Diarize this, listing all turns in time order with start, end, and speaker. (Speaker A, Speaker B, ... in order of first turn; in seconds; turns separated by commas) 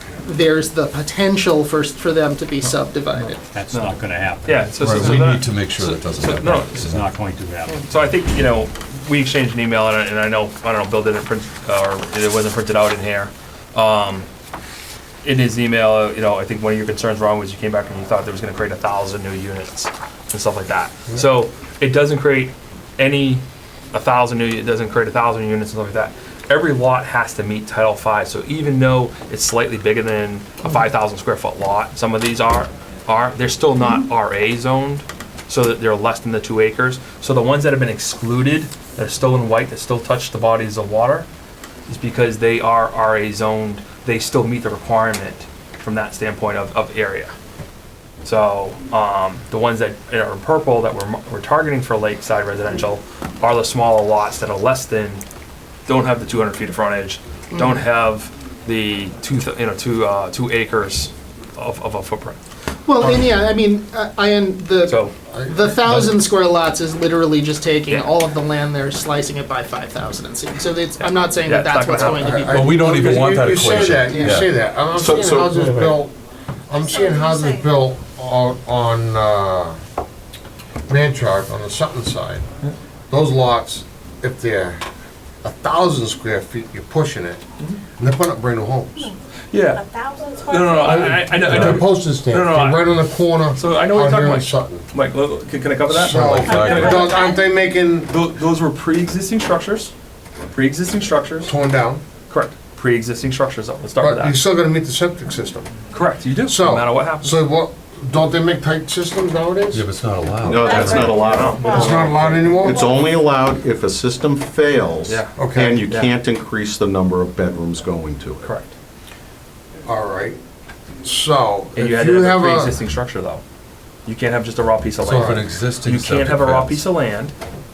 Speaker A: 0.2-3.4, Speaker B: 3.5-5.2, Speaker C: 3.7-7.0, Speaker D: 4.8-7.1, Speaker B: 6.8-7.9, Speaker C: 7.7-14.3, Speaker C: 15.2-41.3, Speaker C: 41.9-47.3, Speaker C: 48.2-55.2, Speaker C: 55.9-62.4, Speaker A: 57.5-57.8, Speaker A: 62.9-73.0, Speaker E: 63.0-63.3, Speaker C: 64.8-65.1, Speaker E: 65.3-65.7, Speaker C: 71.0-72.3, Speaker E: 72.1-76.1, Speaker D: 72.5-74.5, Speaker C: 73.0-73.4, Speaker A: 73.9-74.4, Speaker F: 75.0-75.5, Speaker B: 75.5-76.0, Speaker E: 76.7-79.8, Speaker G: 76.9-77.6, Speaker E: 80.9-82.4, Speaker E: 83.1-84.8, Speaker E: 85.4-87.4, Speaker E: 88.0-89.1, Speaker C: 89.5-89.8, Speaker G: 89.8-90.8, Speaker C: 90.5-92.9, Speaker E: 90.8-94.8, Speaker D: 91.5-91.8, Speaker C: 93.5-97.1, Speaker E: 95.9-98.1, Speaker D: 96.0-97.0, Speaker G: 96.4-97.4, Speaker C: 98.1-99.9, Speaker C: 100.5-101.5, Speaker E: 101.4-102.0, Speaker C: 102.3-104.4, Speaker E: 104.0-105.7, Speaker C: 105.9-107.4, Speaker E: 106.4-109.8, Speaker D: 109.7-111.9, Speaker F: 110.4-112.0, Speaker G: 110.6-112.9, Speaker C: 110.8-112.3, Speaker E: 111.6-113.0, Speaker F: 112.6-118.5, Speaker C: 115.1-115.3, Speaker E: 115.3-115.8, Speaker C: 118.4-118.7, Speaker E: 119.8-120.4, Speaker E: 121.0-122.8, Speaker C: 121.7-123.4, Speaker C: 124.0-127.3, Speaker D: 125.0-126.8, Speaker E: 125.0-125.4